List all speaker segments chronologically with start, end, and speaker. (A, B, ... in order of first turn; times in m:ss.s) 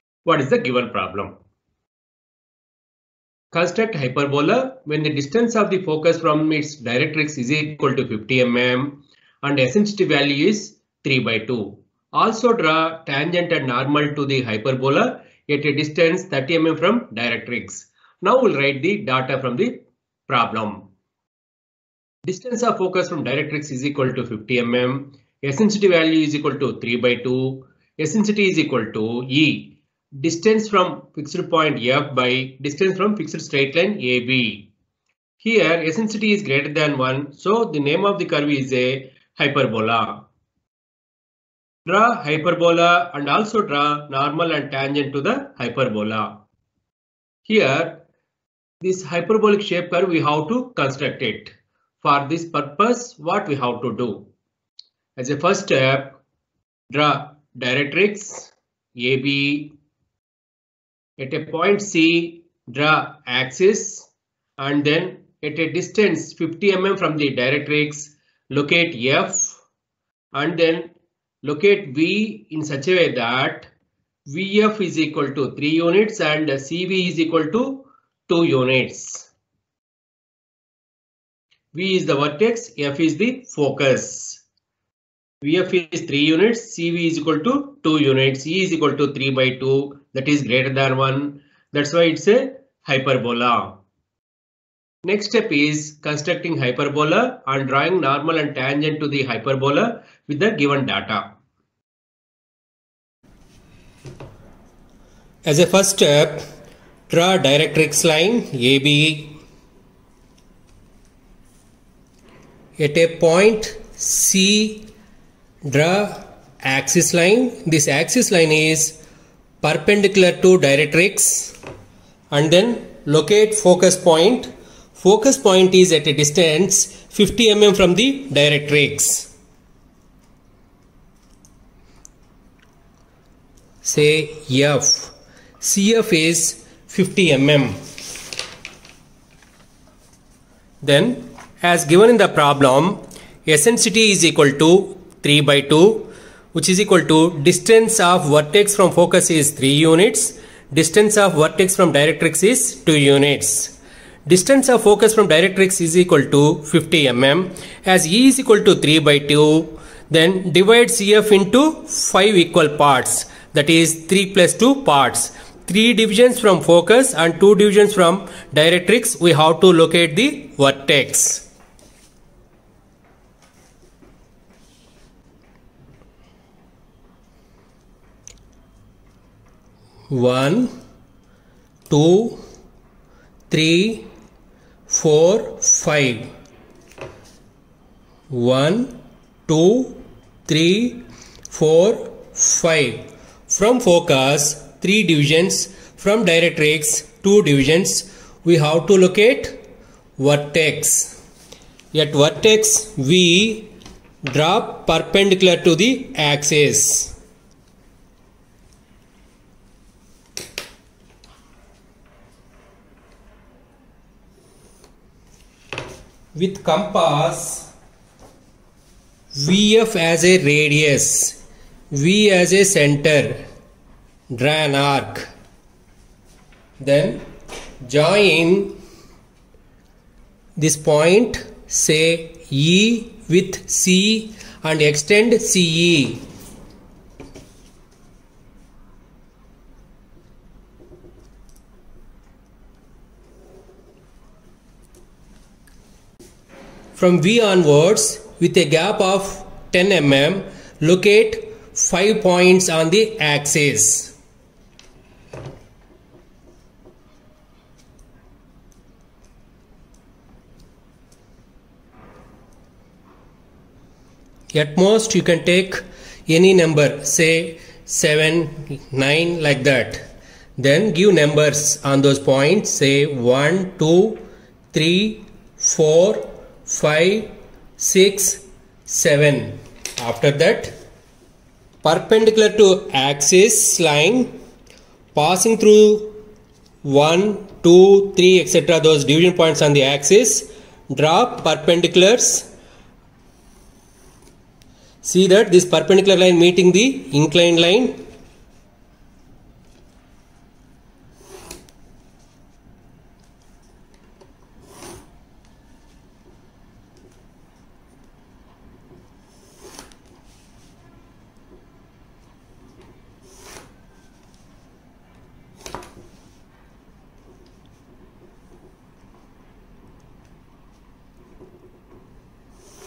0:00.2-0:01.3 A
0:03.5-0:20.8 A
0:22.2-0:34.7 A
0:35.4-0:40.2 A
0:41.8-0:46.4 A
0:47.4-0:48.0 A
0:48.8-0:54.3 A
0:55.2-0:56.2 A
0:56.9-0:59.7 A
1:01.2-1:09.6 A
1:10.3-1:13.7 A
1:14.3-1:19.3 A
1:21.7-1:24.4 A
1:25.4-1:33.8 A
1:35.0-1:41.2 A
1:45.4-1:46.4 A
1:47.1-1:49.4 A
1:52.8-1:54.9 A
1:55.6-1:59.0 A
1:59.6-2:01.5 A
2:02.3-2:09.3 A
2:13.8-2:17.8 A
2:20.8-2:51.4 A
3:00.1-3:00.7 A
3:01.9-3:02.4 A
3:03.5-3:04.1 A
3:04.9-3:06.3 A
3:08.3-3:09.0 A
3:09.5-3:19.6 A
3:20.2-3:21.2 A
3:21.9-3:23.7 A
3:24.2-3:27.1 A
3:36.3-3:37.7 A
3:39.3-3:41.4 A
3:41.9-3:43.4 A
3:44.3-3:45.3 A
3:46.8-3:47.2 A
3:47.8-3:48.8 A
3:50.6-3:56.3 A
4:07.0-4:14.1 A
4:24.5-4:30.0 A
4:30.6-4:40.7 A
4:41.8-4:44.3 A
4:45.1-4:46.2 A
4:46.8-4:52.5 A
4:55.0-4:58.0 A